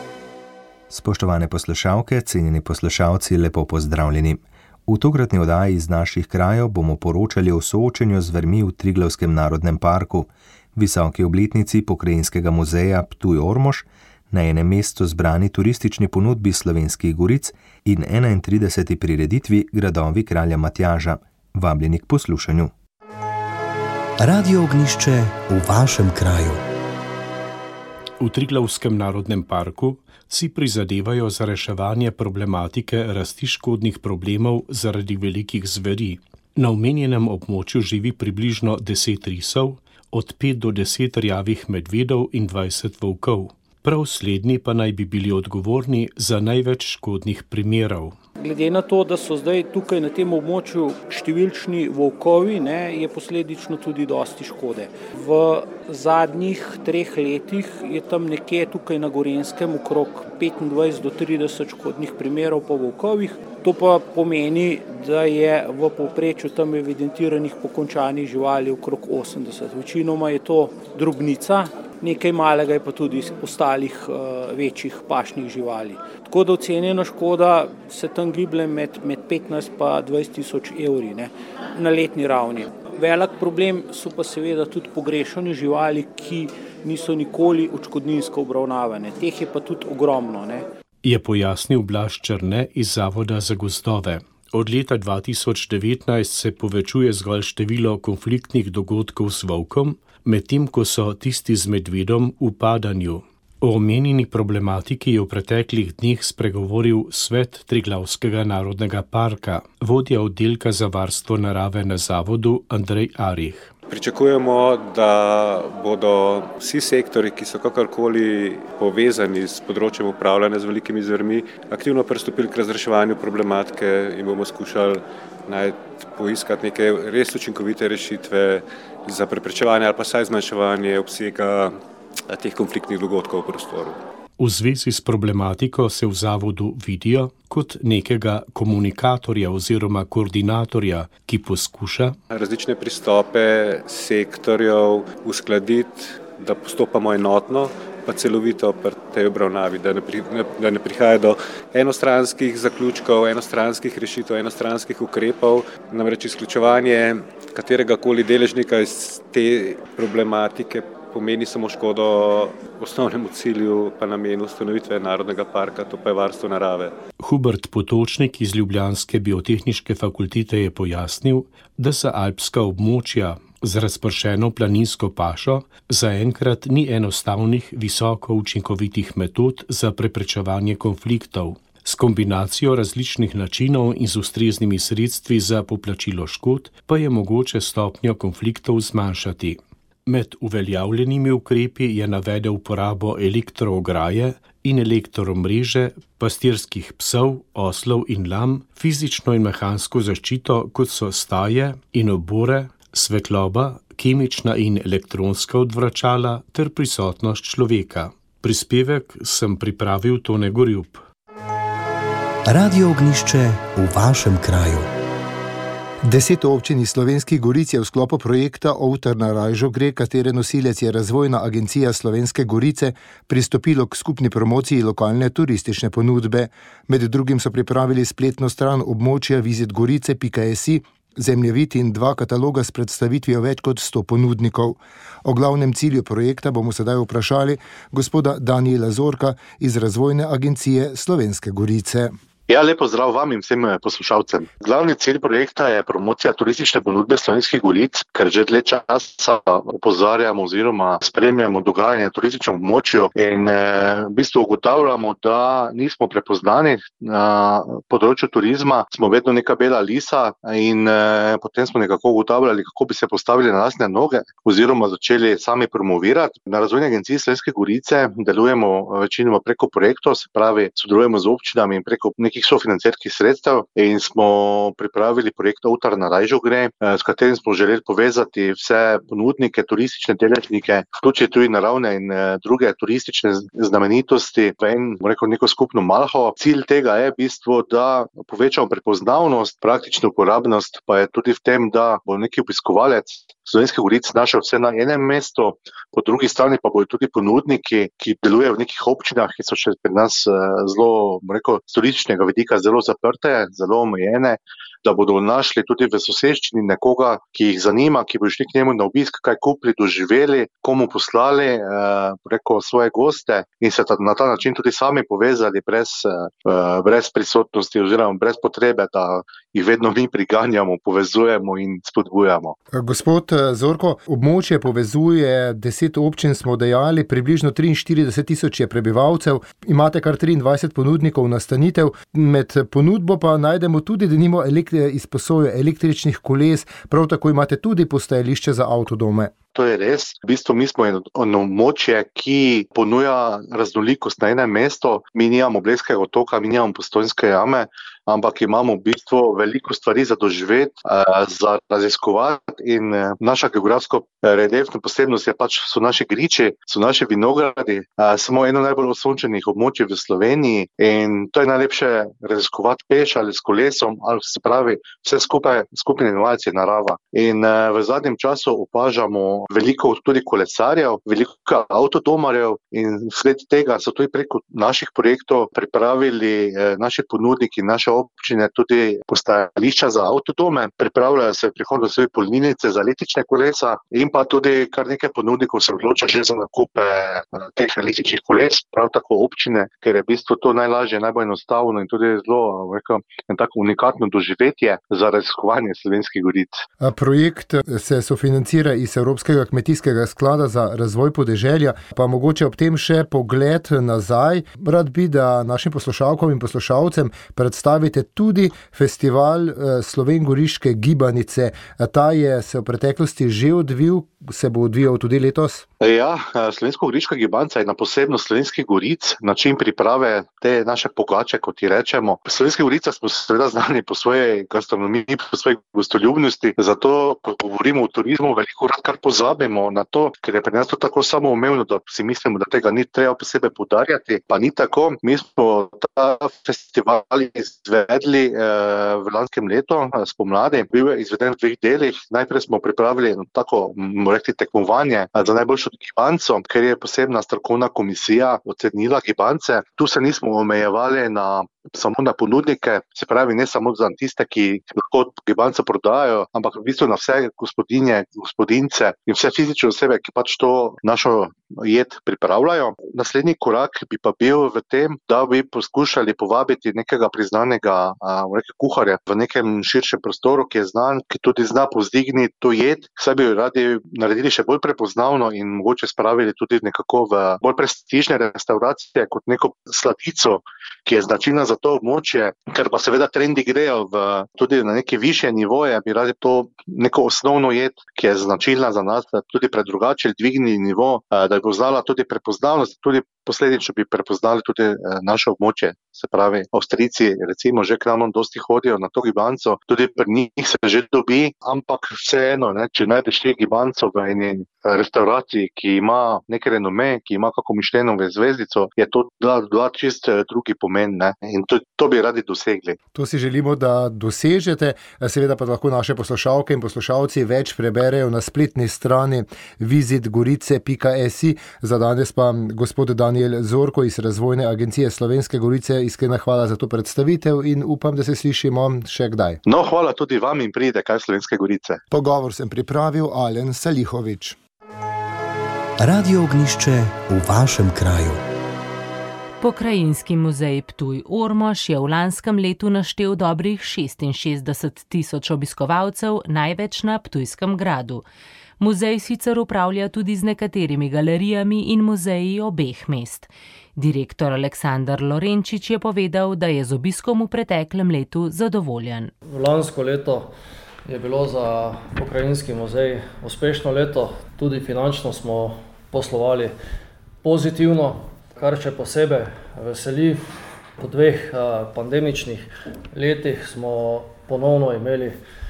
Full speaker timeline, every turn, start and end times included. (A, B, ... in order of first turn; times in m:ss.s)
0:00.9-0:22.7 A
0:24.2-0:26.6 B
0:28.2-0:48.2 C
0:48.4-1:30.6 D
1:31.0-1:53.7 C
1:53.9-2:11.8 E
2:12.3-2:14.0 E
2:14.4-2:22.2 C
2:22.3-2:46.9 E
2:47.2-3:31.0 C
3:32.5-3:34.9 B
3:36.1-4:02.1 F
4:02.5-5:22.5 G
5:22.7-5:39.3 F
5:39.5-6:36.6 G
6:36.8-6:55.6 F
6:55.8-8:32.8 G
8:32.9-8:49.4 F
8:49.4-8:51.8 G
8:51.9-8:54.4 F
8:55.8-8:58.2 B
8:59.4-9:08.0 H
9:08.6-9:19.1 H
9:19.3-9:20.3 I
9:20.8-9:26.5 I
9:27.2-9:30.2 I
9:30.8-9:35.2 I